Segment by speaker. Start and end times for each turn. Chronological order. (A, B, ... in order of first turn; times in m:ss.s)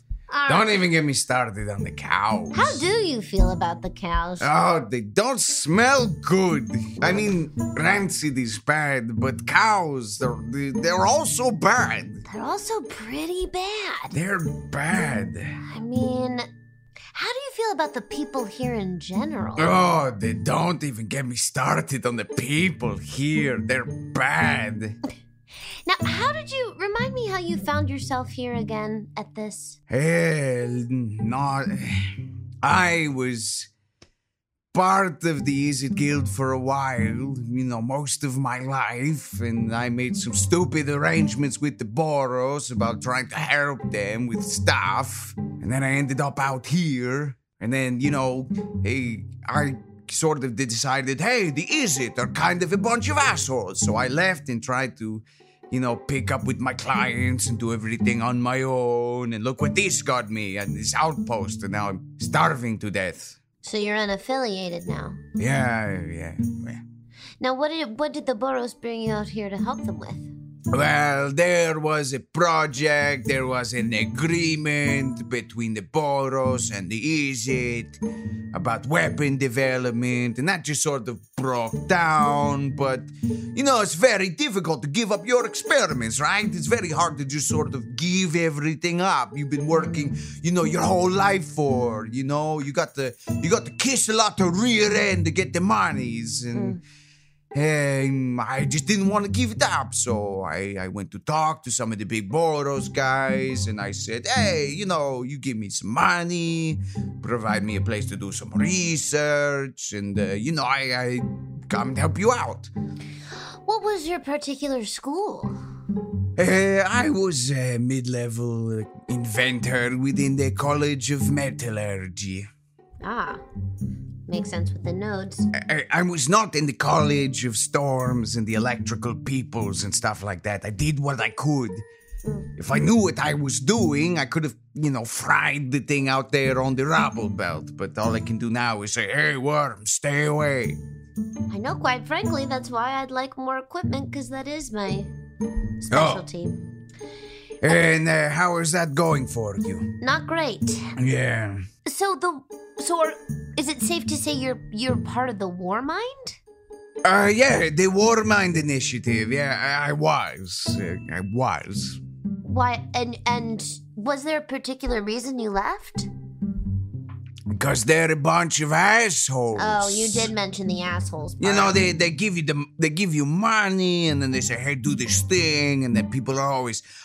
0:00.3-0:00.8 A
0:00.5-0:02.9 B
0:02.5-0:04.5 A
0:04.4-0:12.2 B
0:12.3-0:14.2 A
0:14.1-0:15.6 B
0:15.6-0:16.5 A
0:17.1-0:19.7 A
0:19.6-0:25.0 B
0:25.7-0:29.8 A
0:29.9-0:33.7 B
0:34.7-1:03.4 B
1:03.6-1:05.2 A
1:05.4-1:06.8 B
1:07.4-1:10.3 A
1:10.7-1:18.0 B
1:18.5-1:36.8 B
1:36.6-1:36.8 A
1:37.5-1:52.7 B
1:53.6-1:55.6 A
1:56.4-2:02.5 B
2:03.0-2:03.4 A
2:04.3-2:05.5 A
2:05.5-2:11.8 B
2:12.6-2:20.8 B
2:21.5-2:25.1 A
2:25.8-2:26.6 A
2:25.9-2:26.2 B
2:27.6-2:30.0 B
2:30.0-2:30.9 A
2:31.0-2:31.7 B
2:31.8-2:36.4 A
2:37.0-2:42.0 B
2:42.4-2:46.1 A
2:47.5-2:50.3 B
2:49.6-2:51.8 A
2:51.4-2:56.8 B